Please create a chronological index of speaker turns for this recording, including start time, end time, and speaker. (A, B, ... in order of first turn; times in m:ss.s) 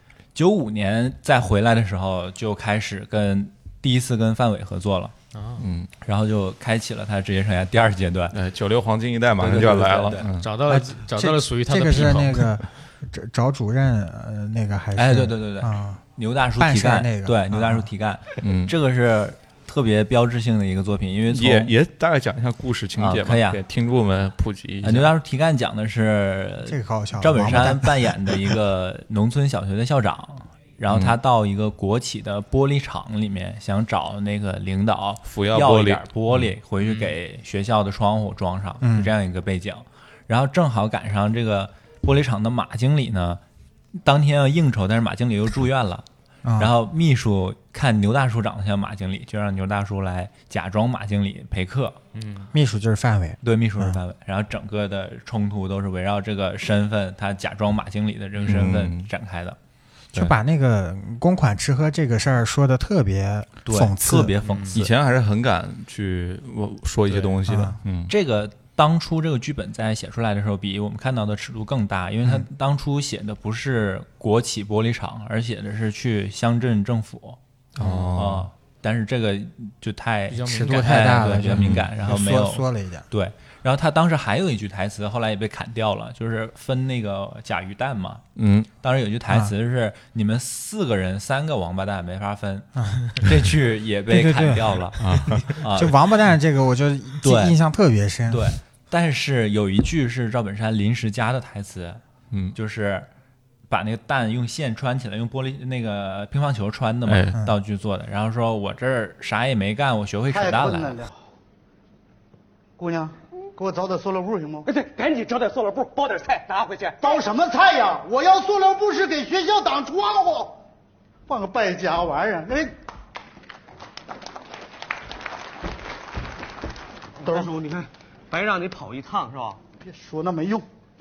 0:00.3-0:05.1 A
0:05.3-0:05.6 B
0:05.6-0:05.9 C
0:06.0-0:08.4 A
0:08.3-0:10.5 C
0:09.4-0:10.3 A
0:10.4-0:12.4 B
0:10.6-0:16.0 D
0:14.9-0:21.7 A
0:16.5-0:17.9 D
0:18.4-0:18.7 C
0:21.3-0:25.1 C
0:23.0-0:23.6 A
0:24.8-0:43.4 A
0:26.7-0:28.1 D
0:30.9-0:31.2 C
0:35.3-0:36.4 C
0:36.8-0:37.1 B
0:38.8-0:39.1 D
0:43.9-0:46.0 A
0:46.4-0:46.7 D
0:46.6-0:52.0 A
0:52.1-0:52.5 B
0:52.5-0:54.0 D
0:53.4-0:59.6 A
0:58.4-0:59.1 C
1:00.1-1:04.3 D
1:03.6-1:04.9 A
1:04.4-1:04.8 B
1:04.7-1:08.1 C
1:07.4-1:07.8 D
1:08.1-1:17.4 A
1:17.8-1:18.5 C
1:18.1-1:28.2 A
1:20.3-1:21.1 B
1:20.4-1:23.1 D
1:21.6-1:21.9 C
1:28.4-1:28.7 C
1:28.8-1:36.0 A
1:32.8-1:33.2 D
1:34.1-1:34.9 D
1:35.0-1:35.5 C
1:35.7-1:38.5 D
1:37.2-1:37.6 A
1:38.3-1:42.0 A
1:42.3-1:42.6 C
1:42.5-1:43.1 A
1:43.7-1:51.0 A
1:47.1-1:47.4 C
1:50.3-1:51.1 E
1:52.8-1:54.7 E
1:54.6-1:57.2 F
1:57.0-2:00.6 E
2:01.3-2:02.7 E
2:07.2-2:07.5 E
2:07.2-2:09.6 F
2:09.8-2:10.7 E